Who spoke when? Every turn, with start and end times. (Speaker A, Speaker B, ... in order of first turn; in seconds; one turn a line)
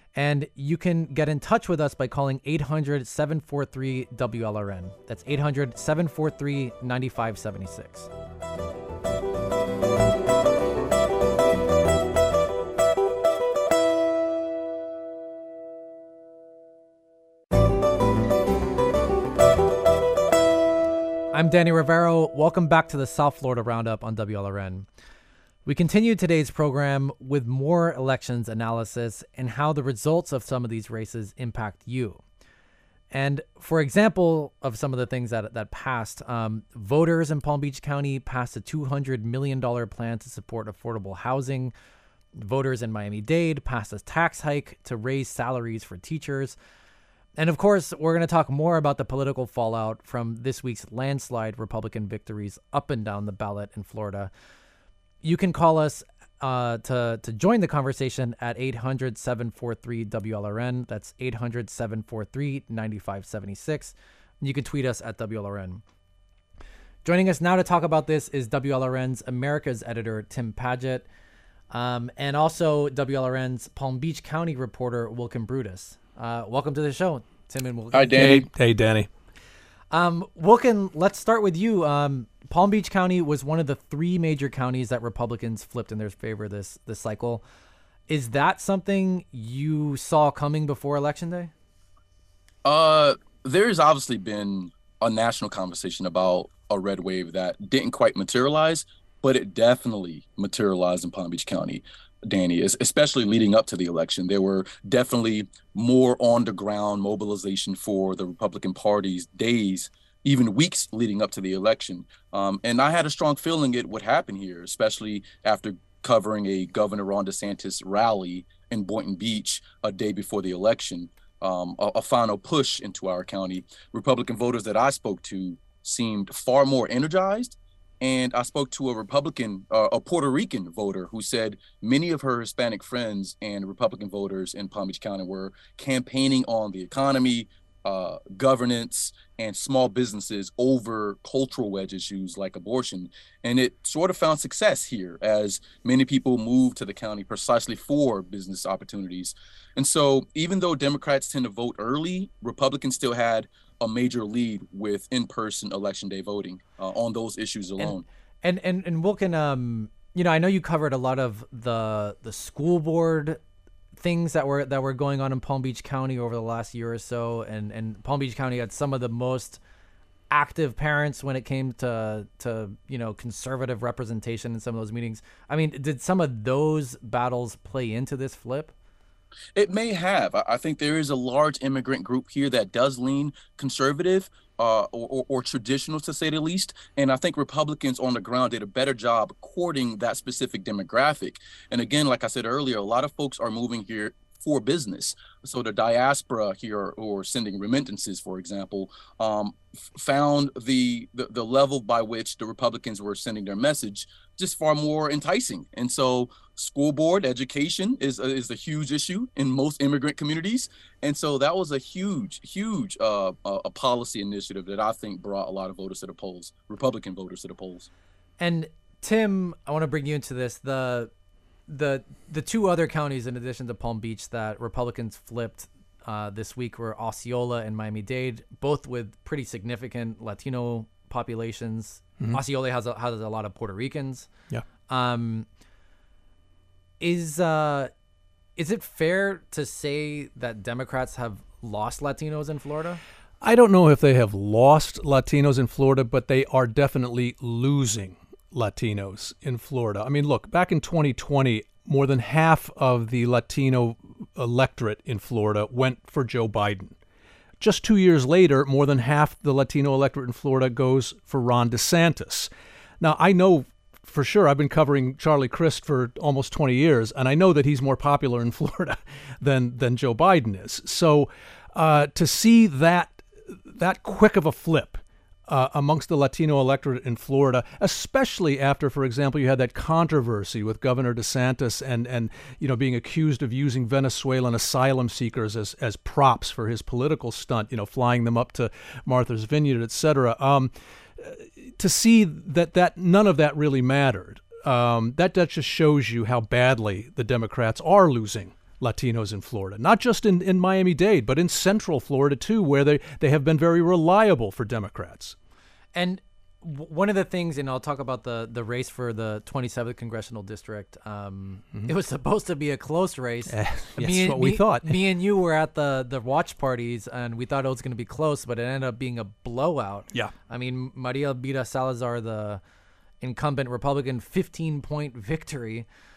Speaker A: 0.1-8.1
Speaker A: 21.3-24.9
Speaker A: 25.6-32.2
Speaker A: 33.1-41.7
Speaker A: 42.4-46.5
Speaker A: 47.4-54.3
Speaker A: 55.2-65.8
Speaker A: 67.0-71.0
Speaker A: 71.7-78.4
Speaker B: 77.9-78.5
Speaker C: 78.2-79.1
Speaker A: 79.9-87.4
Speaker A: 88.1-91.5
Speaker B: 92.6-158.0
Speaker A: 157.8-163.4
Speaker A: 164.0-169.6
Speaker A: 170.3-178.7
Speaker B: 179.6-217.9
Speaker A: 218.4-221.1
Speaker A: 221.7-234.3
Speaker A: 234.9-235.4
Speaker A: 237.0-237.9
Speaker A: 238.6-243.0
Speaker C: 243.4-256.9
Speaker C: 257.6-305.4
Speaker A: 305.9-322.6
Speaker C: 313.5-315.0
Speaker A: 323.2-325.9